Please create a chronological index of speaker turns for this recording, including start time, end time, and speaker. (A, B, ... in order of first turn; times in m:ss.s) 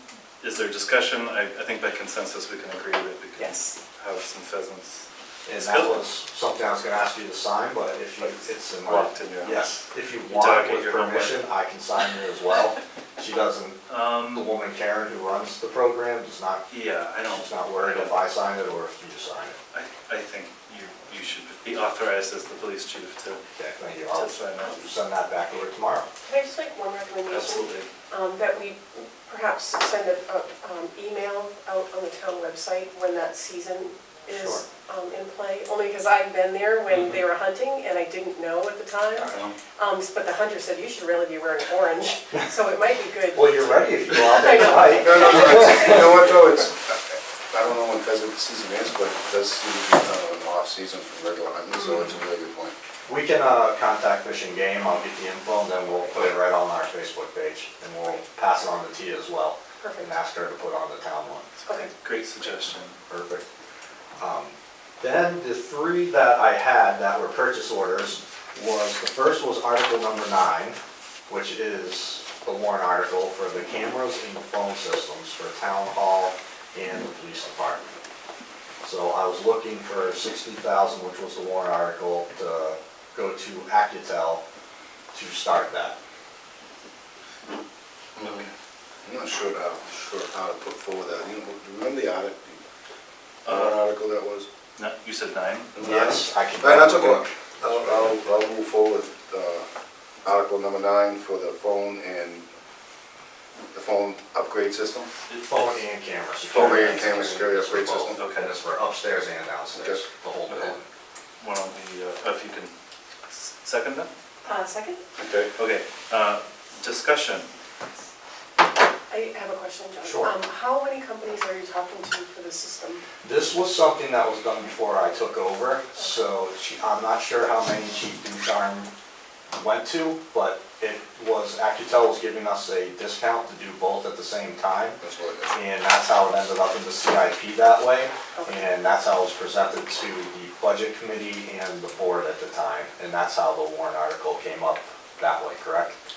0:00.4-0:06.0 A
0:05.4-0:16.7 B
0:08.2-0:11.4 A
0:13.9-0:14.5 A
0:16.7-0:18.1 A
0:17.2-0:19.6 B
0:19.7-0:23.4 A
0:23.5-0:26.1 B
0:24.1-0:24.8 A
0:26.2-0:46.2 C
0:27.3-0:27.9 A
0:34.3-0:34.6 B
0:43.3-0:45.9 B
0:44.9-0:52.7 D
0:53.1-1:01.4 B
0:59.8-1:00.1 C
1:01.6-1:01.9 C
1:02.0-1:03.0 A
1:03.1-1:03.5 B
1:04.2-1:18.0 B
1:18.8-1:24.4 B
1:25.1-1:26.0 B
1:28.1-1:28.5 D
1:29.0-1:32.6 D
1:33.4-1:34.5 D
1:33.4-1:33.9 A
1:34.8-1:35.7 A
1:35.7-1:39.6 D
1:35.8-1:38.1 B
1:40.2-1:42.4 D
1:43.7-1:45.1 D
1:45.3-1:45.8 A
1:45.5-1:50.8 B
1:46.5-1:48.2 D
1:46.5-1:47.1 A
1:48.2-1:48.6 A
1:49.7-1:50.0 D
1:50.5-1:50.7 A
1:51.4-1:52.7 A
1:53.3-1:54.1 A
1:54.4-1:55.0 C
1:55.2-1:55.5 D
1:55.6-1:57.5 A
1:59.1-2:03.0 C
2:00.0-2:00.4 B
2:03.2-2:08.9 B
2:09.5-2:15.0 B
2:15.0-2:15.5 D
2:15.5-2:26.0 B
2:18.4-2:18.7 C